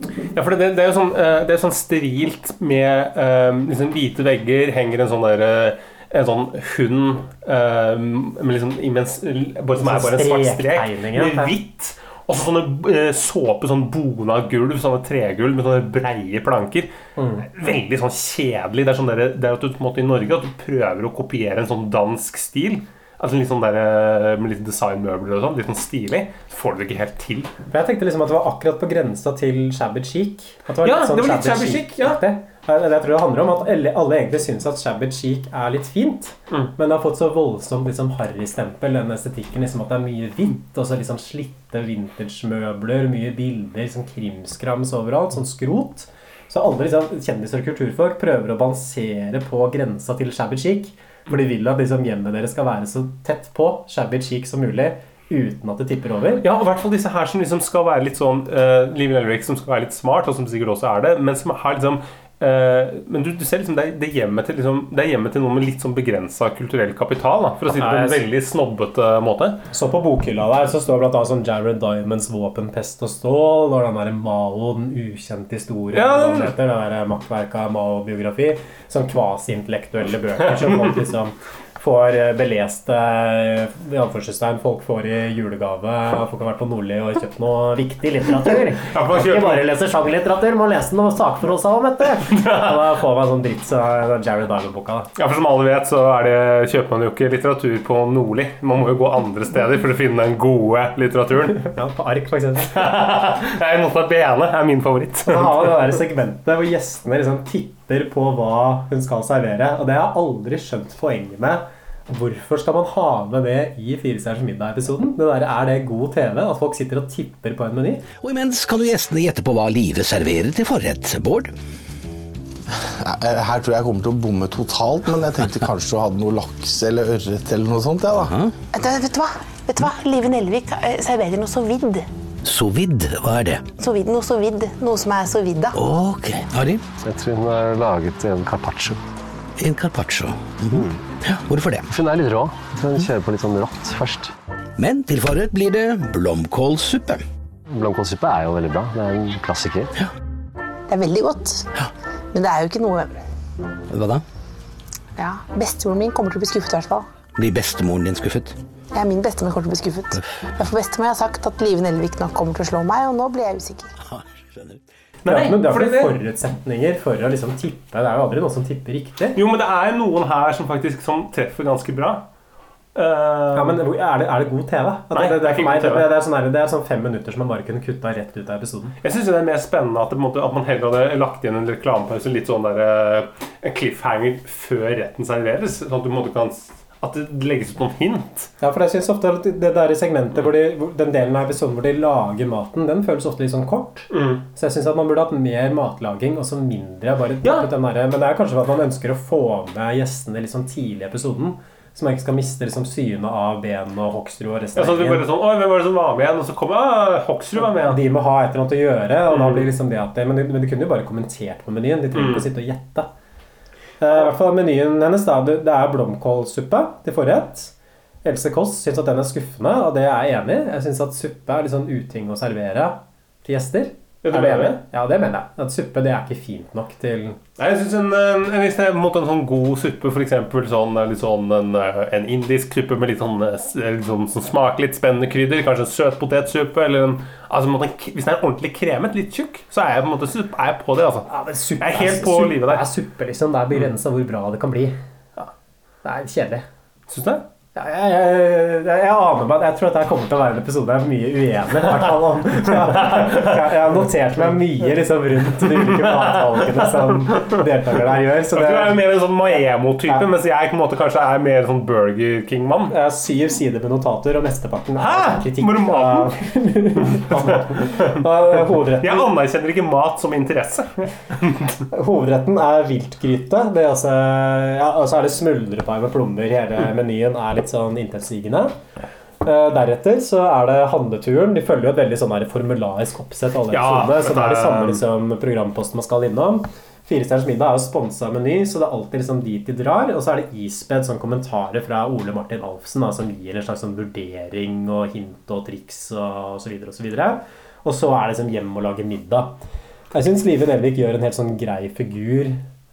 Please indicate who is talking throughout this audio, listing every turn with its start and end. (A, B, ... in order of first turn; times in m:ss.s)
0:00.3-0:27.5 A
0:09.8-0:11.5 B
0:17.2-0:17.5 B
0:27.7-0:56.4 B
0:30.8-0:32.2 A
0:56.4-1:09.6 A
1:07.7-1:08.2 B
1:09.7-1:35.1 B
1:15.9-1:16.5 A
1:20.4-1:21.0 A
1:28.8-1:29.7 A
1:32.4-1:32.7 A
1:35.2-1:41.7 A
1:41.6-1:42.9 B
1:42.7-1:46.0 A
1:45.3-1:58.0 B
1:58.2-2:01.5 C
2:03.0-2:08.3 D
2:08.2-2:08.5 C
2:08.7-2:12.1 E
2:12.4-2:13.6 C
2:13.8-2:15.8 E
2:15.7-2:16.8 C
2:17.0-2:19.0 F
2:19.6-2:21.9 C
2:20.7-2:21.0 F
2:21.9-2:24.3 F
2:24.8-2:27.2 C
2:27.7-2:29.9 F
2:30.9-2:31.7 E
2:32.3-2:33.1 E
2:33.9-2:34.2 C
2:35.2-2:37.1 E
2:37.4-2:38.6 C
2:38.9-2:43.9 E
2:44.0-2:44.8 C
2:45.2-2:46.2 A
2:45.2-2:49.4 B
2:49.3-2:52.3 A
2:52.9-2:53.8 A
2:53.5-2:59.0 B
2:55.1-2:56.1 A
2:59.0-3:08.5 A
3:08.6-3:25.3 B
3:14.1-3:14.4 A
3:17.4-3:17.7 A
3:24.7-3:28.0 A
3:27.6-3:33.1 B
3:29.3-3:29.7 A
3:32.1-3:32.5 A
3:34.0-3:37.7 B
3:38.2-3:47.4 B
3:44.2-3:44.8 A
3:47.6-4:02.9 A
4:01.3-4:05.0 B
4:06.0-4:06.6 B
4:07.1-4:07.5 A
4:07.7-4:19.0 B
4:12.7-4:14.0 A
4:15.7-4:17.6 A
4:18.5-4:23.0 A
4:22.9-4:29.3 B
4:25.0-4:26.3 A
4:27.0-4:31.7 A
4:31.9-4:38.7 B
4:39.4-4:59.5 B
4:43.7-4:45.0 A
5:00.1-5:02.6 B